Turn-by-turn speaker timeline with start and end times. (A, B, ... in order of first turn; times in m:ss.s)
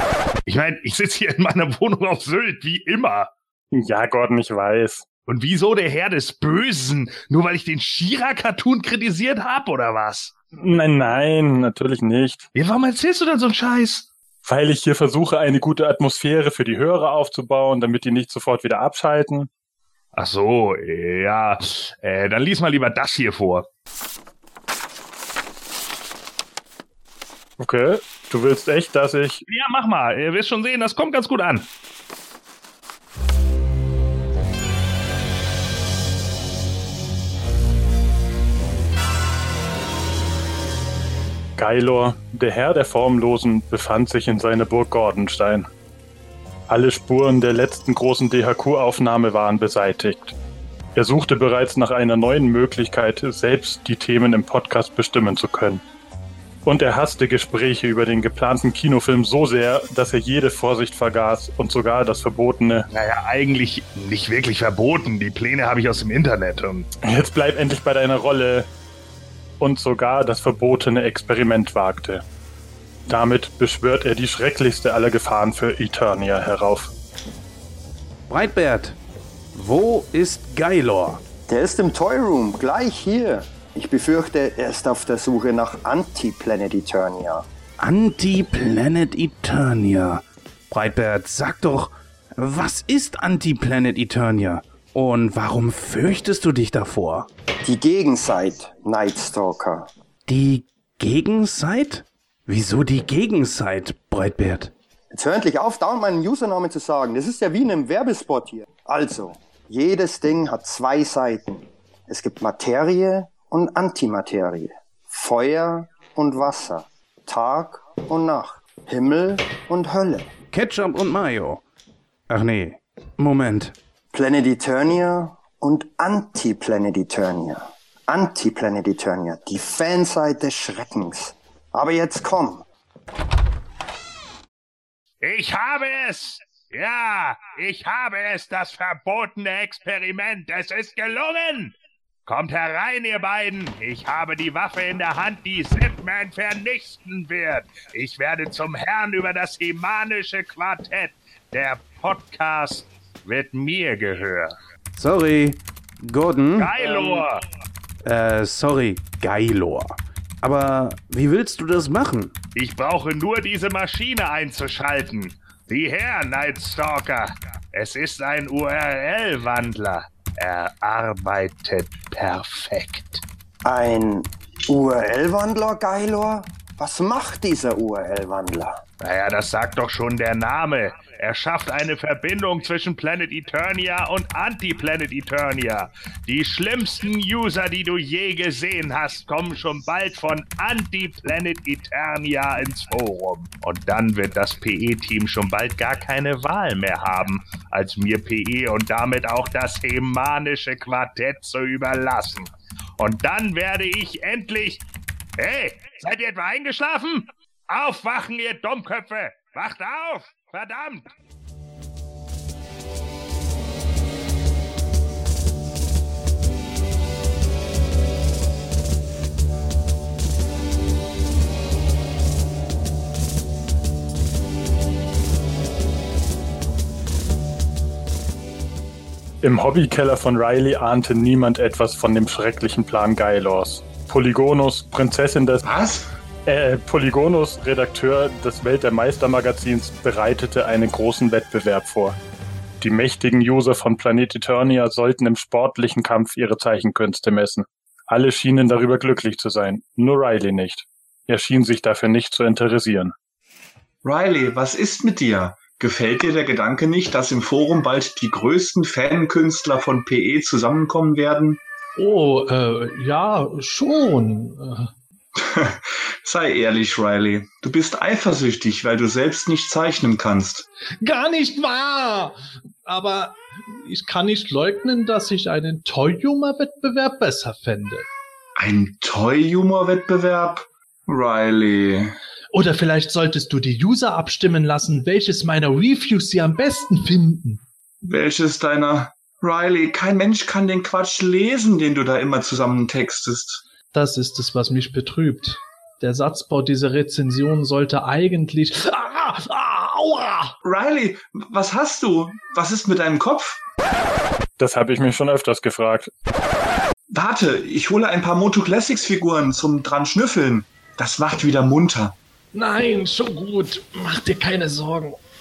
0:00.5-0:03.3 A
0:03.7-0:05.0 B
0:05.3-0:10.3 A
0:10.6-0:12.4 B
0:12.5-0:14.1 A
0:14.4-0:19.5 B
0:20.1-0:23.7 A
0:27.6-0:29.4 B
0:29.5-0:31.7 A
0:41.6-0:45.7 B
0:46.7-0:50.3 B
0:51.0-0:55.8 B
0:56.6-1:02.8 B
1:02.9-1:06.9 A
1:07.0-1:08.7 B
1:09.6-1:12.2 B
1:13.1-1:16.9 B
1:18.3-1:19.0 C
1:19.5-1:21.2 C
1:21.5-1:27.4 D
1:27.8-1:37.3 C
1:37.6-1:39.9 D
1:40.3-1:44.7 C
1:45.1-2:00.3 D
2:00.5-2:01.6 C
2:02.3-2:03.7 C
2:04.1-2:12.6 D
2:15.2-2:34.6 A
2:35.0-2:37.2 C
2:36.6-2:37.4 A
2:38.0-2:42.3 C
2:42.6-2:53.2 A
2:53.6-2:58.8 D
2:59.0-3:24.8 A
3:25.4-3:31.1 A
3:49.4-3:55.6 B
3:55.6-3:56.1 E
3:56.5-4:02.2 B
4:02.8-4:13.1 B
4:14.0-4:21.6 E
4:22.0-4:24.9 F
4:25.4-4:30.7 E
4:31.0-4:38.1 F
4:38.6-4:42.2 E
4:42.5-4:47.6 F
4:48.0-4:53.6 E
4:53.9-5:00.5 F
5:00.6-5:03.6 E
5:04.6-5:06.1 B
5:07.1-5:12.2 E
5:12.5-5:15.2 F